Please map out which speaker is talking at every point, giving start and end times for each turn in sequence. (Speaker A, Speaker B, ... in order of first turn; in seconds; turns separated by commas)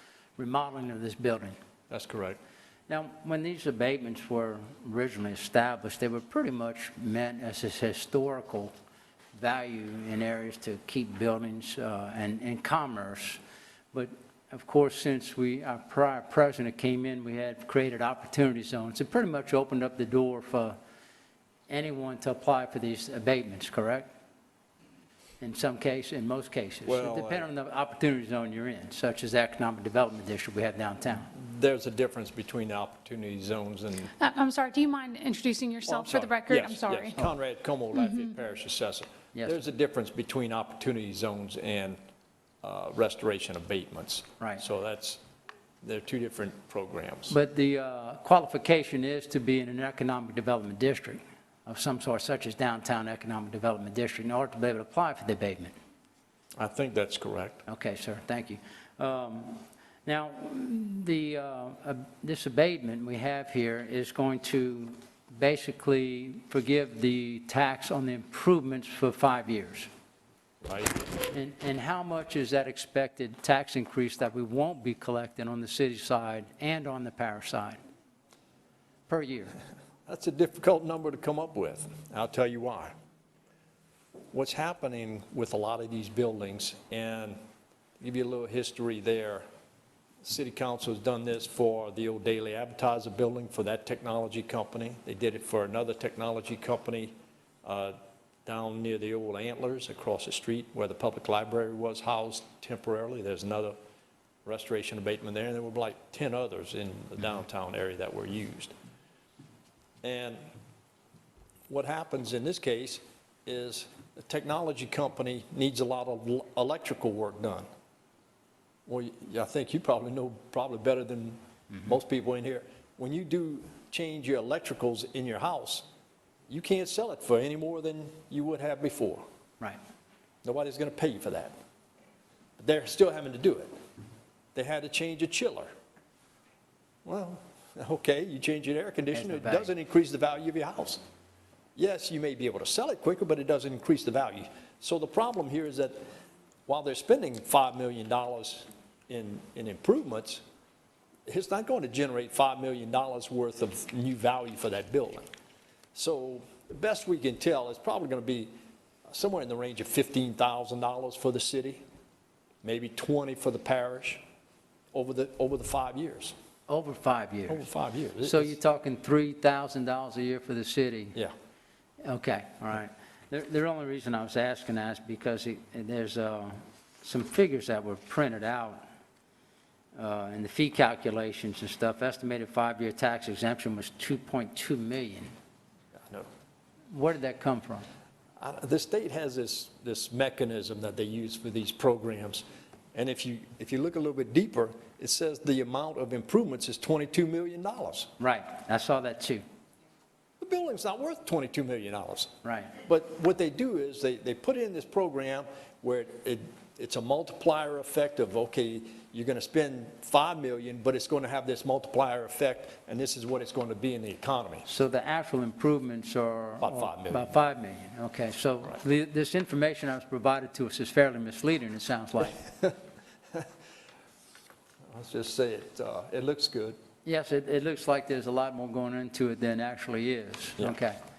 Speaker A: 0.4-1.6, Speaker B: 1.9-2.4, Speaker A: 2.9-8.7, Speaker A: 9.3-13.4, Speaker A: 13.9-20.8, Speaker A: 21.7-24.1, Speaker A: 25.4-31.3, Speaker B: 26.9-27.5, Speaker B: 31.3-34.1, Speaker C: 34.2-37.2, Speaker B: 35.9-42.0, Speaker C: 37.9-38.3, Speaker A: 39.3-39.6, Speaker B: 42.6-45.2, Speaker B: 45.8-47.4, Speaker A: 47.3-55.7, Speaker B: 56.5-57.6, Speaker A: 57.6-69.9, Speaker B: 70.6-71.0, Speaker A: 71.3-77.8, Speaker A: 79.1-79.6, Speaker B: 80.1-82.9, Speaker B: 84.3-87.4, Speaker B: 88.0-89.4, Speaker B: 90.2-103.8, Speaker B: 104.4-108.7, Speaker B: 110.0-110.4, Speaker B: 111.7-117.7, Speaker B: 118.9-125.9, Speaker B: 126.5-129.2, Speaker B: 130.4-131.5, Speaker B: 132.6-133.7, Speaker B: 134.5-135.7, Speaker B: 137.0-141.0, Speaker A: 139.1-139.7, Speaker B: 141.8-146.1, Speaker B: 146.7-150.4, Speaker B: 151.3-155.3, Speaker B: 155.9-158.5, Speaker B: 159.1-161.8, Speaker B: 162.6-164.2, Speaker B: 164.9-166.3, Speaker A: 166.7-167.7, Speaker B: 167.5-168.6, Speaker A: 168.2-171.2, Speaker A: 172.0-178.8, Speaker A: 179.9-185.3, Speaker B: 185.9-186.3, Speaker A: 186.9-187.8, Speaker B: 188.4-198.1, Speaker A: 198.2-199.4, Speaker B: 200.4-202.3, Speaker A: 202.4-202.8, Speaker B: 202.8-214.7, Speaker A: 214.6-222.4, Speaker B: 216.6-217.4, Speaker B: 224.9-226.8, Speaker A: 227.0-231.0